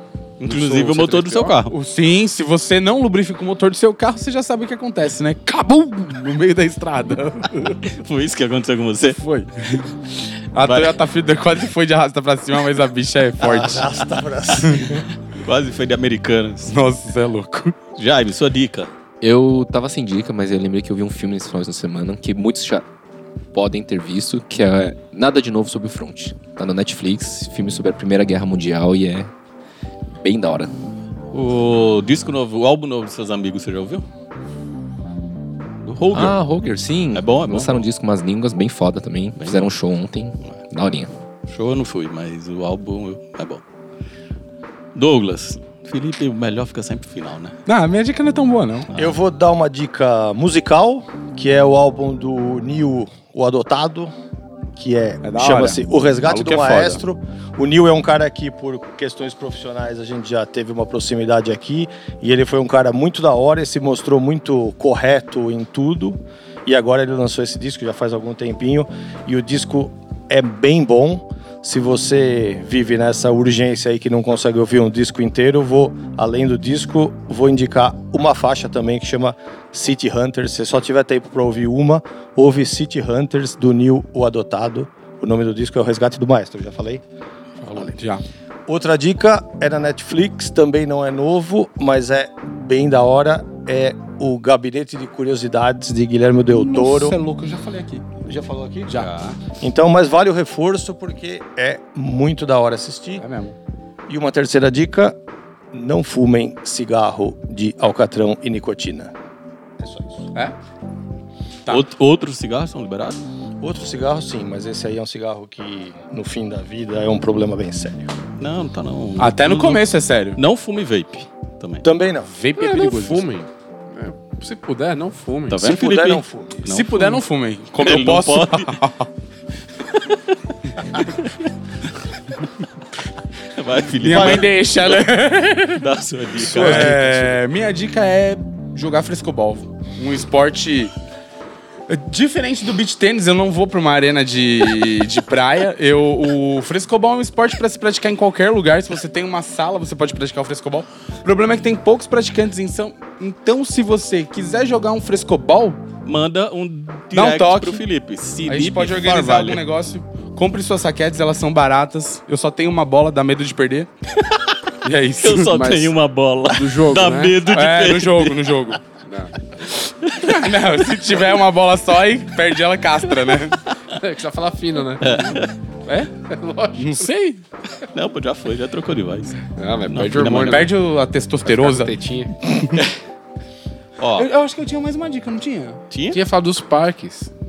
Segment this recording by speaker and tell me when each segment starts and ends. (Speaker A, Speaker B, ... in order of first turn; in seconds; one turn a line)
Speaker A: 0.4-1.7
Speaker B: 0.4-1.6
Speaker C: 1.6-7.8
Speaker A: 7.9-9.2
Speaker C: 9.2-9.8
Speaker C: 10.5-13.9
Speaker A: 10.6-11.0
Speaker D: 13.4-15.1
Speaker A: 13.6-13.9
Speaker C: 14.5-14.9
Speaker A: 14.8-16.7
Speaker C: 16.6-17.8
Speaker A: 17.9-18.9
Speaker E: 19.2-22.8
Speaker E: 23.5-29.3
Speaker E: 30.2-30.7
Speaker A: 31.3-34.0
Speaker A: 35.8-36.4
Speaker E: 36.1-41.1
Speaker A: 37.1-37.9
Speaker A: 39.4-39.7
Speaker A: 41.5-43.6
Speaker A: 44.9-47.6
Speaker C: 47.7-48.9
Speaker D: 48.9-54.1
Speaker D: 54.8-87.0
Speaker C: 55.2-57.0
Speaker C: 87.6-88.2
Speaker D: 88.7-97.2
Speaker C: 96.5-98.1
Speaker D: 98.2-103.2
Speaker C: 98.8-99.3
Speaker A: 98.9-99.4
Speaker C: 103.2-103.5
Speaker D: 104.1-105.2
Speaker D: 105.7-109.1
Speaker D: 109.8-110.3
Speaker A: 111.7-113.2
Speaker D: 113.6-118.1
Speaker A: 118.4-121.8
Speaker C: 119.2-120.4
Speaker D: 121.8-122.3
Speaker C: 122.2-123.3
Speaker B: 122.6-125.7
Speaker A: 125.5-127.2
Speaker D: 125.6-126.6
Speaker C: 126.6-129.1
Speaker A: 127.8-128.8
Speaker A: 129.9-130.3
Speaker A: 130.9-131.5
Speaker A: 133.5-135.1
Speaker C: 134.0-135.8
Speaker A: 135.7-137.0
Speaker D: 136.4-137.3
Speaker C: 136.5-140.9
Speaker C: 141.9-155.8
Speaker A: 156.0-159.6
Speaker C: 157.1-157.8
Speaker C: 158.4-163.9
Speaker C: 164.8-165.5
Speaker A: 165.2-168.5
Speaker B: 165.4-167.3
Speaker C: 167.4-168.8
Speaker B: 169.0-169.7
Speaker A: 170.0-170.4
Speaker C: 170.2-173.6
Speaker B: 173.9-175.4
Speaker A: 175.0-175.5
Speaker C: 175.8-176.1
Speaker B: 176.2-177.1
Speaker C: 176.8-177.4
Speaker A: 177.9-180.7
Speaker B: 179.5-180.7
Speaker C: 180.4-182.8
Speaker B: 181.4-182.4
Speaker A: 184.0-184.3
Speaker C: 184.2-185.8
Speaker A: 185.9-186.2
Speaker B: 186.1-187.3